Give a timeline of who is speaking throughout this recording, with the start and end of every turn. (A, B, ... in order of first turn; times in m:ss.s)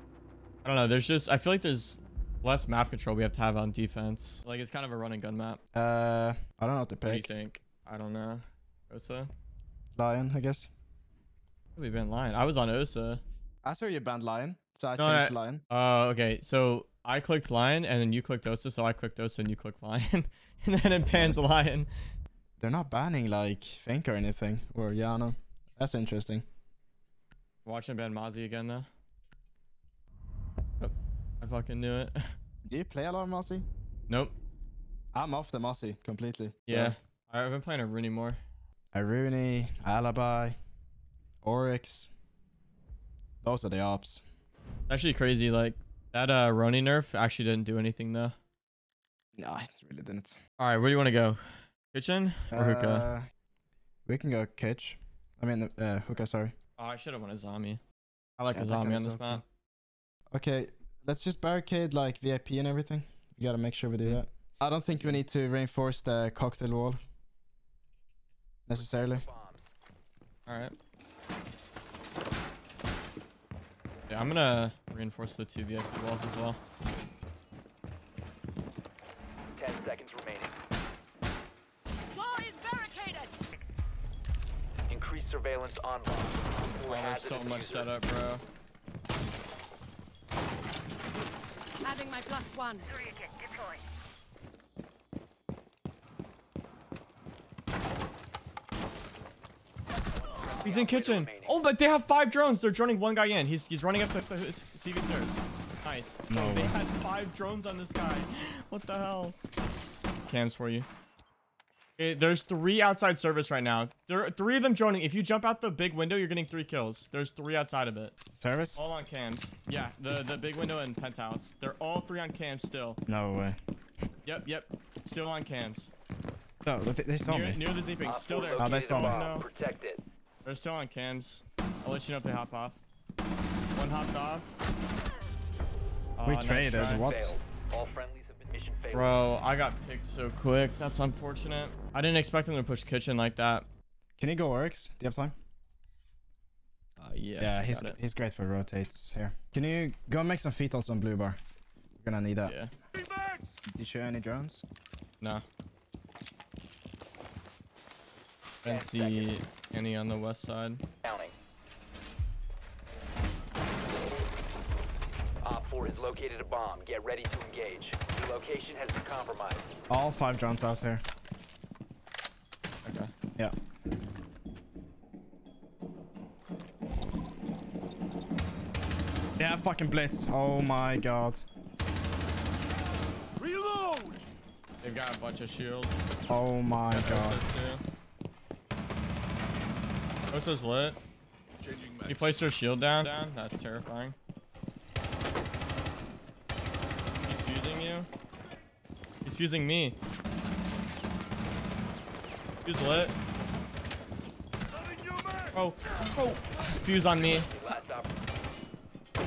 0:00.6-0:05.6 A
0:05.7-0:07.3 B
0:07.1-0:09.3 A
0:10.0-0:10.7 B
0:11.8-0:13.2 A
0:13.6-0:15.6 B
0:15.0-0:21.9 A
0:21.1-0:21.4 B
0:22.6-0:26.4 B
0:27.6-0:28.9 A
0:30.8-0:32.3 A
0:32.7-0:33.6 B
0:34.1-0:34.3 A
0:35.1-0:37.0 B
0:36.7-0:38.4 A
0:38.9-0:40.6 B
0:41.4-0:42.1 B
0:43.4-0:44.2 B
0:44.9-0:48.4 A
0:49.4-0:50.4 B
0:50.6-0:53.1 A
0:52.5-0:53.3 B
0:54.1-0:56.5 B
0:56.8-0:57.8 A
0:58.4-0:59.4 A
0:58.5-0:59.4 B
1:00.3-1:07.0 B
1:08.7-1:09.2 B
1:08.7-1:09.6 C
1:10.5-1:10.7 A
1:14.1-1:16.6 A
1:19.6-1:20.6 C
1:22.1-1:23.4 D
1:24.9-1:27.9 C
1:26.9-1:28.4 A
1:31.8-1:33.8 D
1:40.4-1:41.6 C
1:40.6-1:49.4 A
1:46.3-1:46.8 B
1:50.3-1:50.9 A
1:52.0-1:58.1 A
1:58.4-1:58.8 B
1:58.8-2:03.0 A
2:03.1-2:03.6 B
2:04.2-2:05.9 A
2:06.6-2:07.6 B
2:07.2-2:09.5 A
2:08.0-2:10.0 C
2:08.6-2:09.2 B
2:10.4-2:12.8 A
2:13.7-2:14.5 A
2:16.2-2:17.1 A
2:16.2-2:17.4 B
2:17.0-2:19.2 C
2:18.9-2:23.7 A
2:24.2-2:25.4 B
2:27.0-2:28.0 A
2:27.4-2:31.4 B
2:32.0-2:32.6 B
2:32.4-2:32.7 A
2:33.7-2:34.6 B
2:38.6-2:39.4 C
2:38.6-2:40.8 A
2:41.0-2:41.3 C
2:45.4-2:49.7 C
2:49.9-2:51.0 B
2:52.8-2:53.1 A
2:59.4-3:01.4 B
3:04.8-3:06.1 A
3:06.3-3:07.4 B
3:06.9-3:07.8 A
3:10.3-3:11.0 A
3:12.0-3:14.2 A
3:17.2-3:18.1 A
3:19.2-3:20.0 A
3:22.6-3:23.2 A
3:25.5-3:27.5 A
3:27.2-3:28.1 C